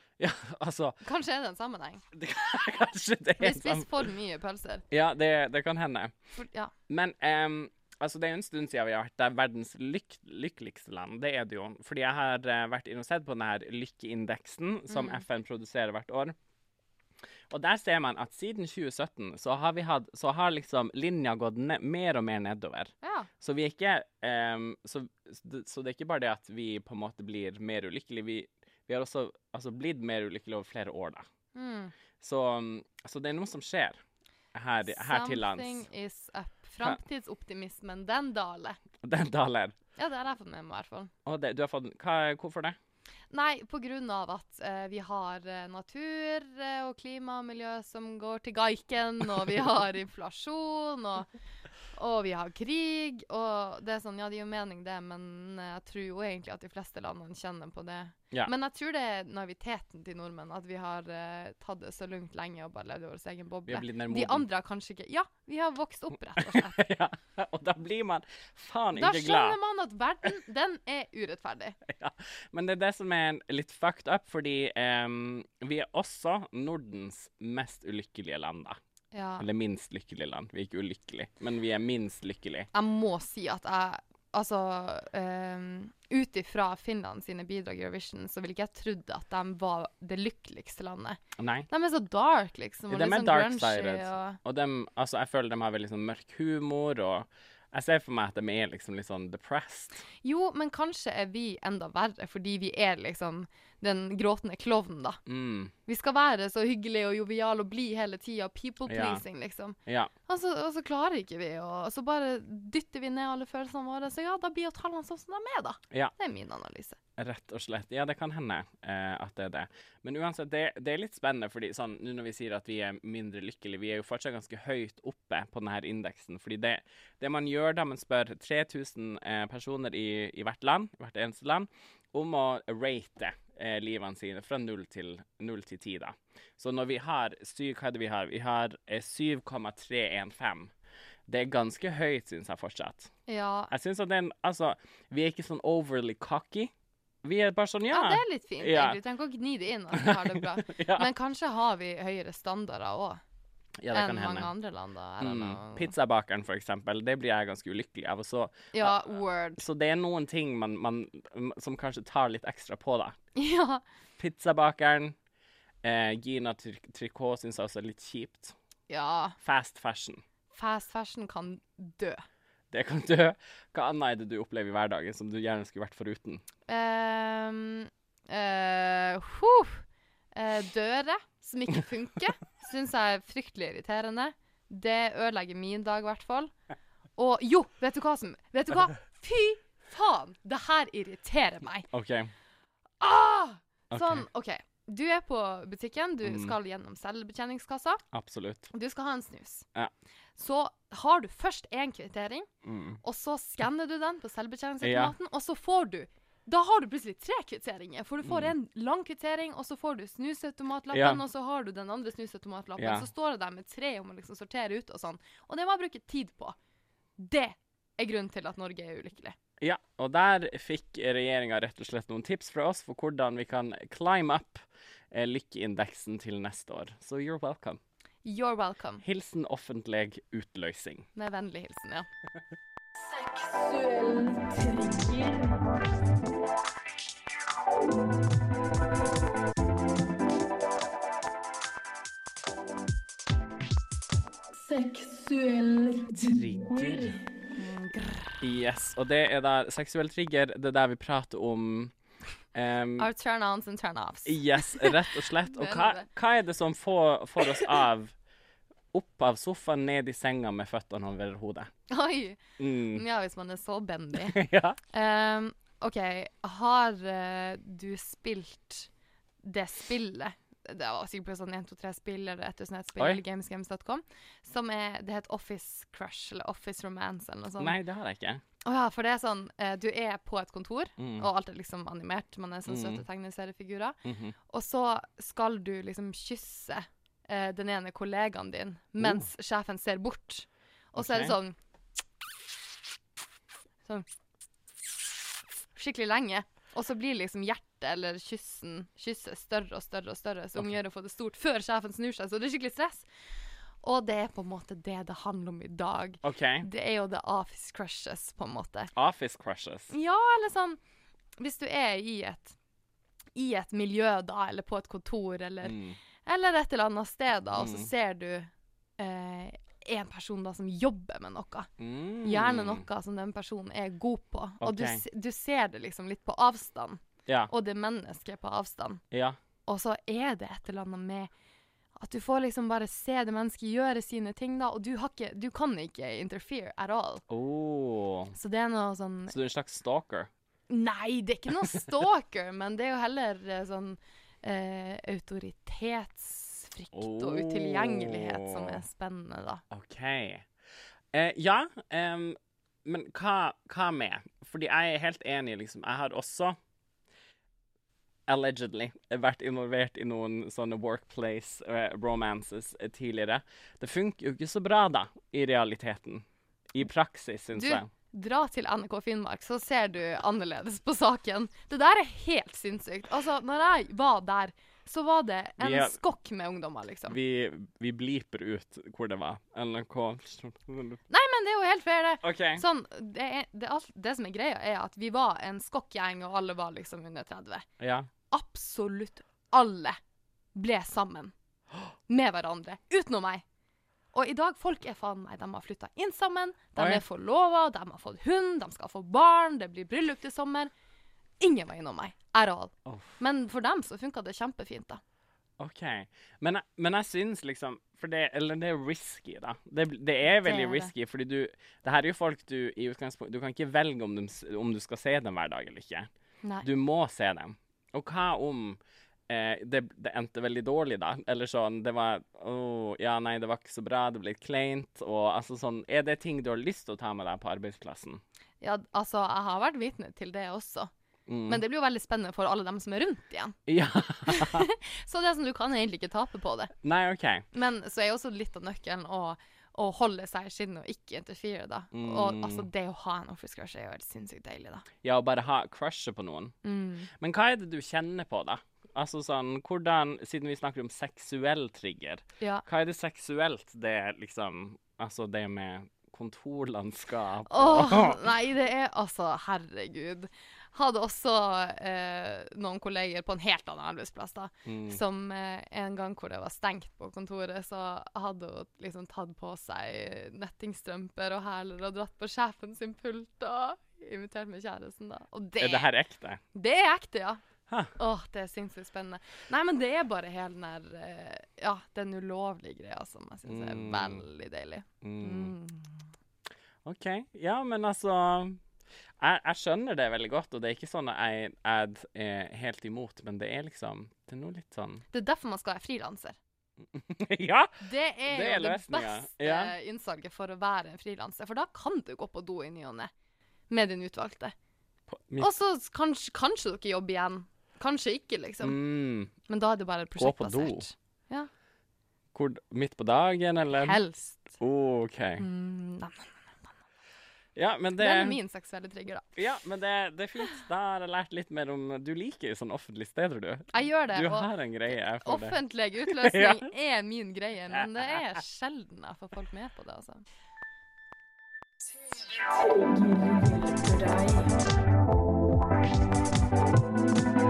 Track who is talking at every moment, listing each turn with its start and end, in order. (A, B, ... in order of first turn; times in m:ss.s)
0:00.2-0:01.0 A
0:01.0-0:02.0 B
0:02.1-0:04.0 A
0:03.4-0:04.8 B
0:04.9-0:06.1 A
0:06.4-0:06.7 B
0:06.9-0:16.3 A
0:14.9-0:15.2 B
0:17.5-0:31.2 A
0:23.0-0:23.3 B
0:31.5-0:31.9 B
0:32.2-0:34.0 A
0:34.5-0:35.9 A
0:34.8-0:38.8 B
0:39.0-0:39.7 A
0:40.0-0:41.1 B
0:41.2-0:42.8 A
0:43.3-0:51.3 B
0:51.9-1:06.8 B
1:03.7-1:04.5 A
1:06.4-1:09.6 A
1:08.9-1:11.8 B
1:11.9-1:18.8 A
1:19.1-1:19.4 B
1:19.4-1:22.7 A
1:22.7-1:34.4 B
1:31.4-1:31.7 A
1:32.9-1:40.0 A
1:40.2-1:45.2 B
1:45.2-1:45.7 A
1:45.8-1:57.0 B
1:48.9-1:49.2 A
1:49.8-1:50.1 A
1:57.2-2:20.7 A
2:21.3-2:23.1 A
2:23.2-2:23.7 B
2:23.7-2:26.7 A
2:27.2-2:29.0 A
2:27.9-2:33.2 B
2:29.9-2:31.1 A
2:33.8-2:34.5 A
2:33.9-2:35.9 B
2:35.2-2:39.0 A
2:38.7-2:39.6 B
2:39.6-2:43.1 A
2:43.3-2:43.8 B
2:44.2-2:45.1 A
2:45.8-2:48.5 A
2:48.9-2:49.4 B
2:49.4-2:50.2 A
2:50.5-2:52.2 B
2:52.7-2:56.4 A
2:56.7-3:06.5 B
3:07.2-3:11.9 B
3:11.9-3:12.3 A
3:13.0-3:18.0 B
3:13.9-3:14.2 A
3:16.2-3:16.6 A
3:18.1-3:18.7 A
3:18.7-3:19.6 B
3:20.4-3:22.5 B
3:22.6-3:23.0 A
3:23.0-3:36.5 B
3:24.8-3:25.1 A
3:28.2-3:28.5 A
3:30.9-3:31.2 A
3:32.8-3:33.1 A
3:37.2-3:39.3 B
3:39.6-3:47.8 A
3:48.2-3:49.0 B
3:49.0-3:51.1 A
3:51.1-3:52.0 B
3:53.0-3:55.6 C
4:04.6-4:07.1 C
4:06.2-4:07.2 A
4:07.5-4:08.4 B
4:08.4-4:11.9 A
4:12.5-4:13.1 A
4:13.0-4:16.1 B
4:14.2-4:18.1 A
4:17.4-4:17.7 B
4:18.9-4:21.7 A
4:21.9-4:28.9 B
4:22.6-4:23.0 A
4:24.2-4:24.8 A
4:29.4-4:37.8 B
4:37.6-4:38.4 A
4:38.6-4:44.0 B
4:41.0-4:41.3 A
4:42.7-4:43.0 A
4:44.0-4:44.4 A
4:44.5-4:51.6 B
4:49.0-4:49.2 A
4:51.0-4:51.3 A
4:55.7-5:03.1 B
5:03.8-5:08.9 B
5:06.2-5:06.7 A
5:09.0-5:09.9 A
5:09.9-5:10.8 B
5:11.4-5:12.6 B
5:13.3-5:21.7 B
5:15.6-5:16.0 A
5:17.6-5:17.9 A
5:21.8-5:22.8 A
5:22.2-5:29.0 B
5:24.6-5:25.0 A
5:27.2-5:27.5 A
5:29.1-5:29.4 A
5:29.6-5:31.3 B
5:32.0-5:37.2 B
5:37.3-5:38.3 A
5:38.3-5:39.3 B
5:39.3-5:40.3 A
5:40.7-5:49.6 B
5:46.9-5:48.8 A
5:49.7-5:50.4 A
5:51.1-5:56.6 A
5:58.3-6:07.9 A
6:07.5-6:17.2 B
6:15.6-6:16.0 A
6:17.1-6:21.0 A
6:21.1-6:27.6 B
6:22.2-6:22.6 A
6:27.8-6:28.1 A
6:28.3-6:30.0 B
6:30.5-6:31.3 B
6:32.1-6:33.4 B
6:34.1-6:40.7 B
6:36.8-6:37.0 A
6:41.4-6:45.0 B
6:42.8-6:43.2 A
6:45.6-6:56.1 A
6:50.3-6:50.9 B
6:56.6-7:08.2 A
7:08.6-7:10.9 B
7:11.3-7:11.6 A
7:11.5-7:13.6 B
7:13.7-7:14.6 A
7:14.3-7:16.7 B
7:16.8-7:17.4 A
7:17.5-7:24.8 B
7:21.9-7:22.7 A
7:25.0-7:26.5 A
7:26.6-7:27.1 B
7:27.1-7:38.3 A
7:32.4-7:32.6 B
7:37.4-7:55.9 B
7:44.6-7:45.0 A
7:55.6-7:56.4 A
7:56.5-7:57.4 B
7:57.9-8:06.1 B
8:03.5-8:04.2 A
8:05.0-8:05.5 A
8:06.8-8:08.6 A
8:09.2-8:15.0 A
8:15.1-8:16.4 B
8:16.9-8:19.7 A
8:17.8-8:23.1 B
8:23.7-8:24.5 B
8:25.1-8:25.5 A
8:25.4-8:28.8 B
8:28.6-8:29.3 A
8:29.4-8:31.5 B
8:30.2-8:30.9 A
8:32.3-8:34.0 A
8:33.7-8:34.6 B
8:34.6-8:35.4 A
8:35.4-8:36.7 B
8:37.6-8:38.4 A
8:38.0-8:39.3 B
8:39.4-8:46.6 A
8:43.7-8:50.2 B
8:52.2-8:54.6 C